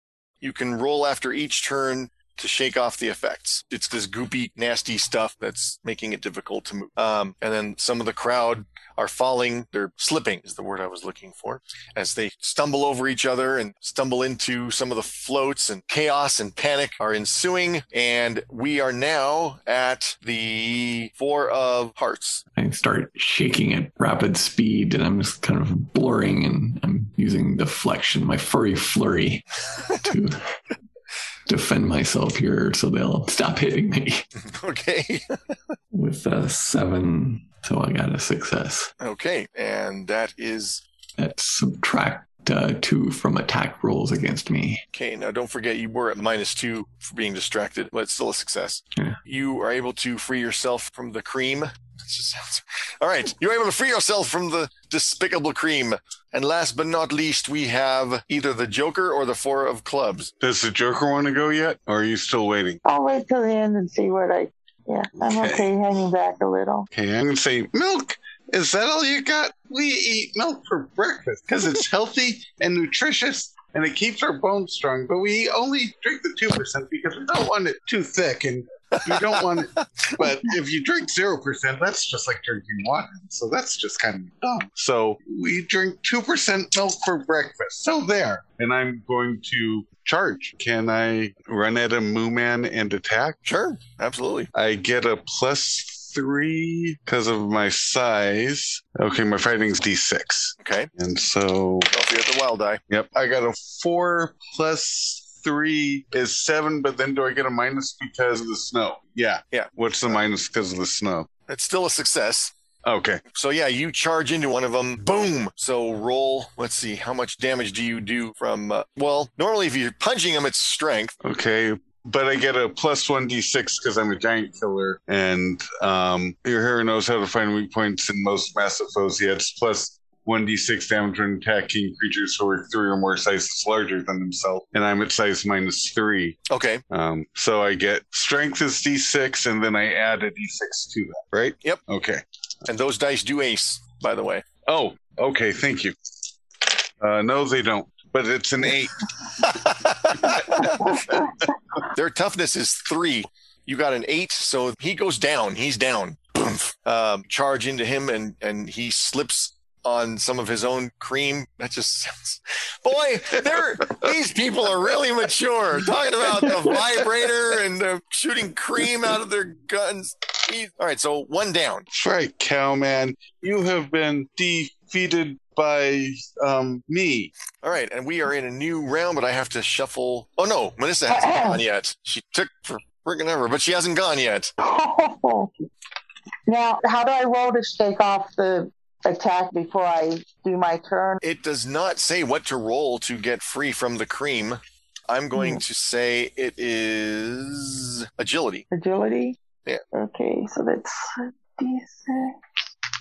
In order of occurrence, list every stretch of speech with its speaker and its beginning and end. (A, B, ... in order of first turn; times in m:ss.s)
0:00.4-0:22.4 A
0:22.6-0:29.4 B
0:30.0-0:30.4 B
0:31.5-0:34.2 B
0:34.3-0:35.3 A
0:35.9-0:38.9 B
0:39.0-0:40.8 A
0:41.2-0:44.8 B
0:44.9-1:00.3 A
1:00.4-1:02.8 C
1:02.8-1:06.9 D
1:05.2-1:05.7 C
1:06.9-1:33.4 C
1:18.9-1:19.4 A
1:33.4-1:34.5 A
1:34.5-1:41.9 C
1:40.6-1:40.9 A
1:41.9-1:42.8 A
1:42.9-1:51.3 C
1:49.5-1:50.2 A
1:51.5-1:52.5 A
1:52.8-1:53.2 C
1:53.3-2:01.2 A
2:01.2-2:16.4 C
2:16.5-2:16.8 A
2:16.9-2:22.2 C
2:22.6-2:24.4 A
2:24.6-2:25.9 C
2:27.0-2:29.0 C
2:29.4-2:31.1 A
2:30.2-2:31.2 C
2:31.9-2:51.8 A
2:51.9-2:57.3 C
2:57.6-3:04.5 A
3:01.1-3:01.6 D
3:04.6-3:05.5 D
3:06.5-3:11.2 D
3:11.2-3:18.6 A
3:15.3-3:15.6 D
3:18.7-3:19.4 D
3:19.9-3:22.3 D